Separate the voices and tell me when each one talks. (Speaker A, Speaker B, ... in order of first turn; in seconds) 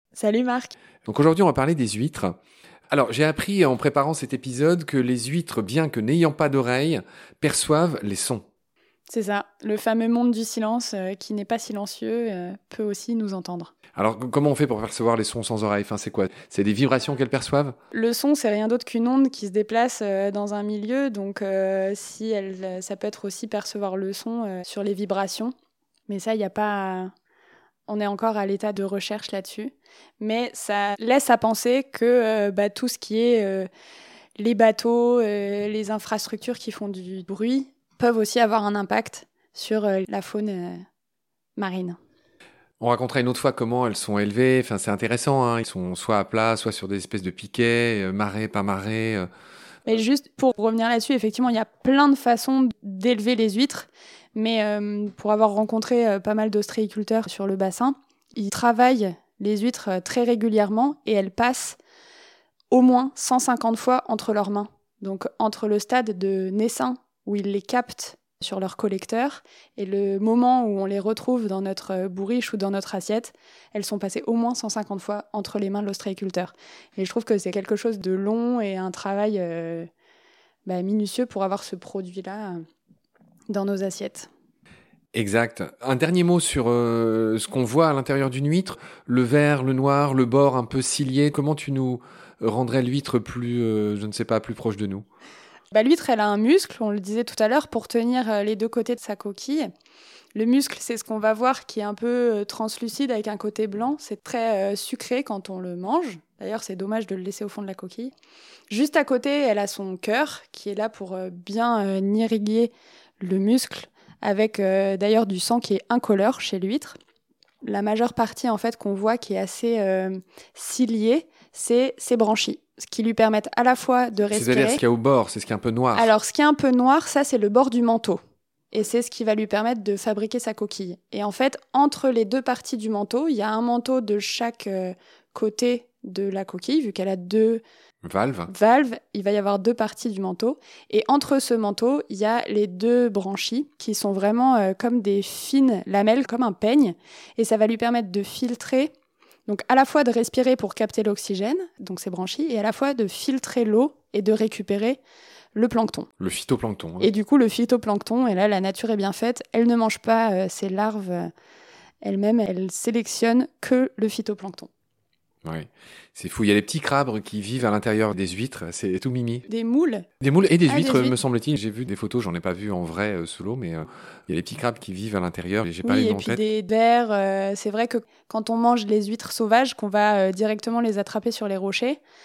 Speaker A: 0.1-0.8, 9.1-13.7, 17.9-25.5, 26.1-27.1, 27.9-33.7, 34.4-40.8, 41.6-42.0, 49.9-61.8, 62.7-79.9, 80.7-82.6, 83.5-84.3, 95.7-99.7, 100.3-108.1, 108.7-117.0, 117.6-124.8, 126.0-128.2, 128.7-137.6, 138.5-148.9, 149.5-155.0, 155.6-156.1, 157.0-161.3, 162.0-164.7, 169.5-170.1, 170.7-171.2, 175.8-182.0
Speaker B: 1.1-2.4, 2.9-8.5, 14.0-17.8, 42.8-49.3, 85.1-95.0, 124.3-126.1, 138.0-138.5, 156.2-157.1, 165.4-169.5, 170.2-176.4